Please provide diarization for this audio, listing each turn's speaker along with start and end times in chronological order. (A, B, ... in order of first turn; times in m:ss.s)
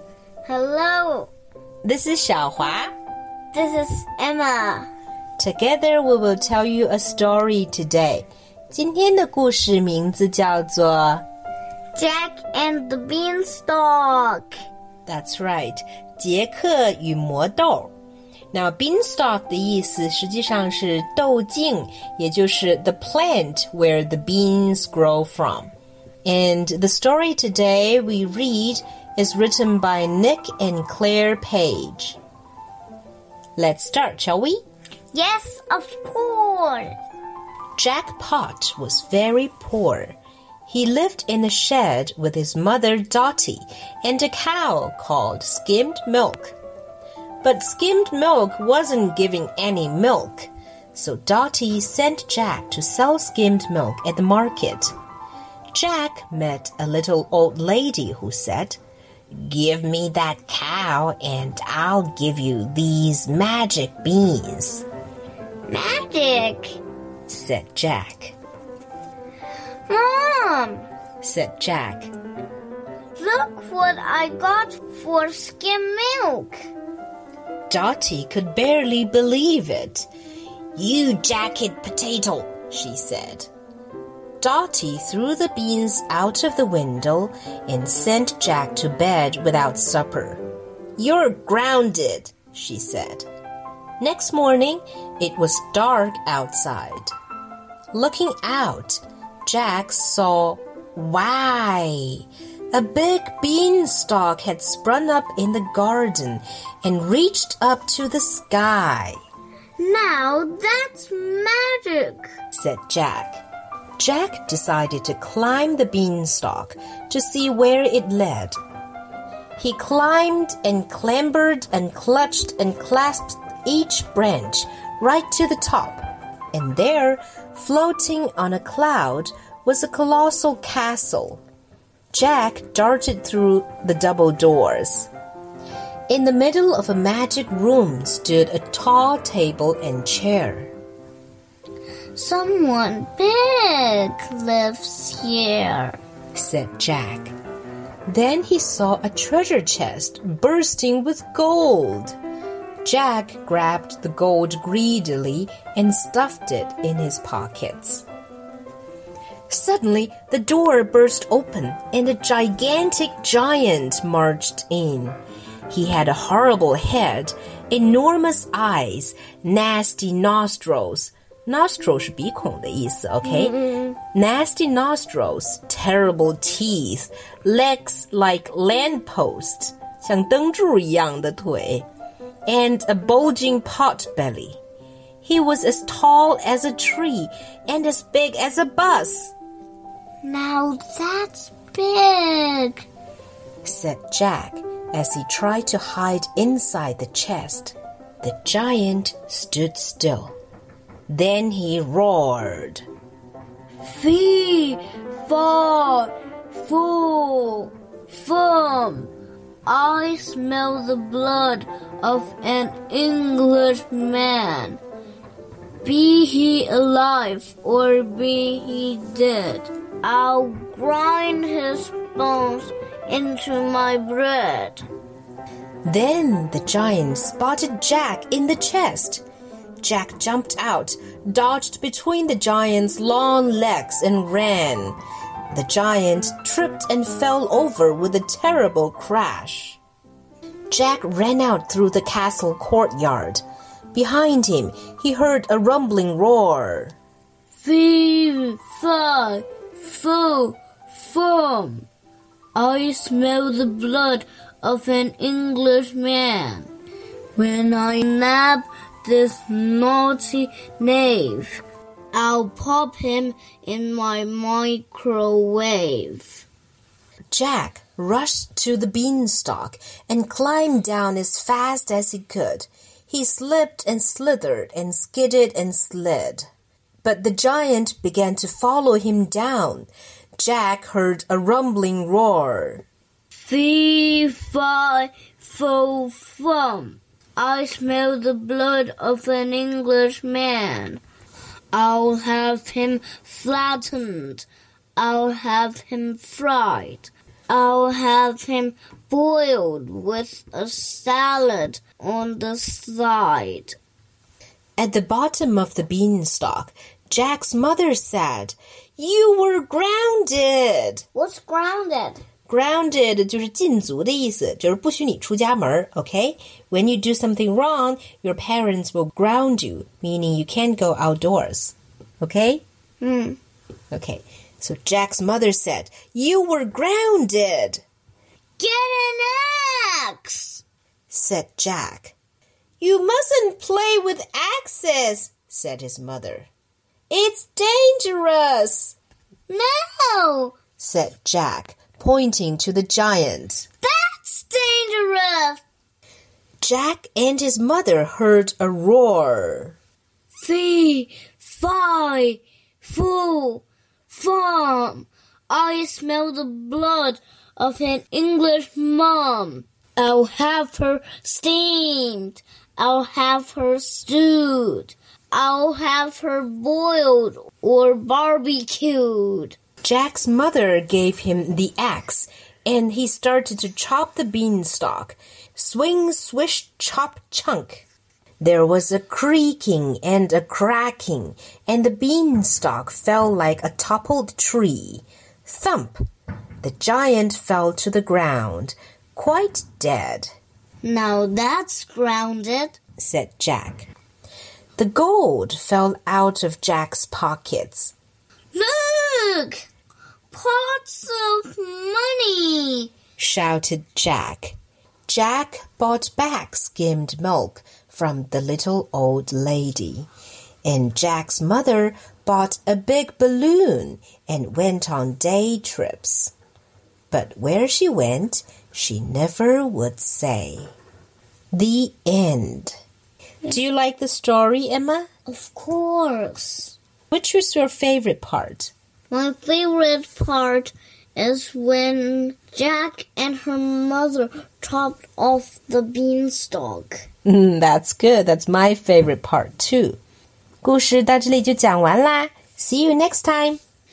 0:00.4-0:01.3 A
0:01.8-0:02.9 B
0:03.5-0:04.9 A
0:05.4-0:11.2 B
0:11.9-0:14.6 A
0:15.0-0:17.9 B
0:18.5-0:25.7 B
0:26.2-0:32.2 B
0:33.6-0:34.6 B
0:35.1-0:37.0 A
0:37.8-0:40.2 B
0:40.7-0:46.6 B
0:47.4-0:54.9 B
0:55.7-0:58.8 B
0:59.3-1:04.8 B
1:05.7-1:06.8 A
1:07.3-1:08.4 B
1:09.9-1:10.9 A
1:11.2-1:12.1 B
1:13.2-1:16.6 A
1:17.7-1:20.1 B
1:20.8-1:23.5 B
1:24.4-1:30.4 B
1:31.0-1:33.2 B
1:34.0-1:37.1 B
1:37.9-1:49.2 B
1:49.8-1:52.4 A
1:52.5-1:53.4 B
1:54.0-1:58.6 B
1:59.6-2:11.4 B
2:12.1-2:15.1 B
2:16.1-2:20.7 B
2:22.1-2:26.0 A
2:26.3-2:27.3 B
2:28.1-2:32.2 B
2:32.8-2:38.0 B
2:39.5-2:45.2 B
2:45.7-3:01.8 B
2:53.2-2:53.9 A
3:02.5-3:04.6 B
3:05.2-3:09.3 B
3:10.2-3:12.8 A
3:13.6-3:20.4 B
3:21.1-3:22.8 B
3:23.8-3:29.1 A
3:29.6-3:34.8 A
3:35.8-3:44.8 A
3:45.8-3:49.2 B
3:49.8-3:55.0 B
3:55.5-3:59.8 B
4:00.7-4:07.0 B
4:07.5-4:11.9 A
4:12.5-4:16.7 A
4:17.4-4:21.6 A
4:22.1-4:26.4 A
4:27.3-4:36.5 B
4:37.0-4:42.8 B
4:43.3-4:51.0 A
4:51.7-5:03.8 A
5:04.8-5:11.0 B
5:11.1-5:12.2 A
5:12.5-5:22.6 B
5:23.0-5:23.4 A
5:23.9-5:27.8 B
5:28.6-5:30.6 A
5:31.1-5:32.1 B
5:32.8-5:36.5 B
5:37.1-5:39.0 B
5:39.5-5:40.6 A
5:40.8-5:43.6 B
5:43.8-5:45.6 A
5:46.6-5:49.8 B
5:50.3-6:09.6 A
6:09.8-6:17.8 B
6:18.4-6:26.0 B
6:26.6-6:30.3 B
6:30.8-6:32.8 A
6:33.0-6:33.9 B
6:34.8-6:37.9 B
6:38.5-6:39.6 A
6:40.3-6:42.9 A
6:43.2-6:44.6 B
6:45.1-6:50.1 B
6:50.6-6:56.3 B
6:57.1-7:00.7 B
7:01.5-7:02.8 B
7:03.4-7:05.1 B
7:05.3-7:06.8 A
7:07.1-7:08.7 B
7:09.1-7:17.0 A
7:17.2-7:20.0 B
7:20.6-7:23.6 B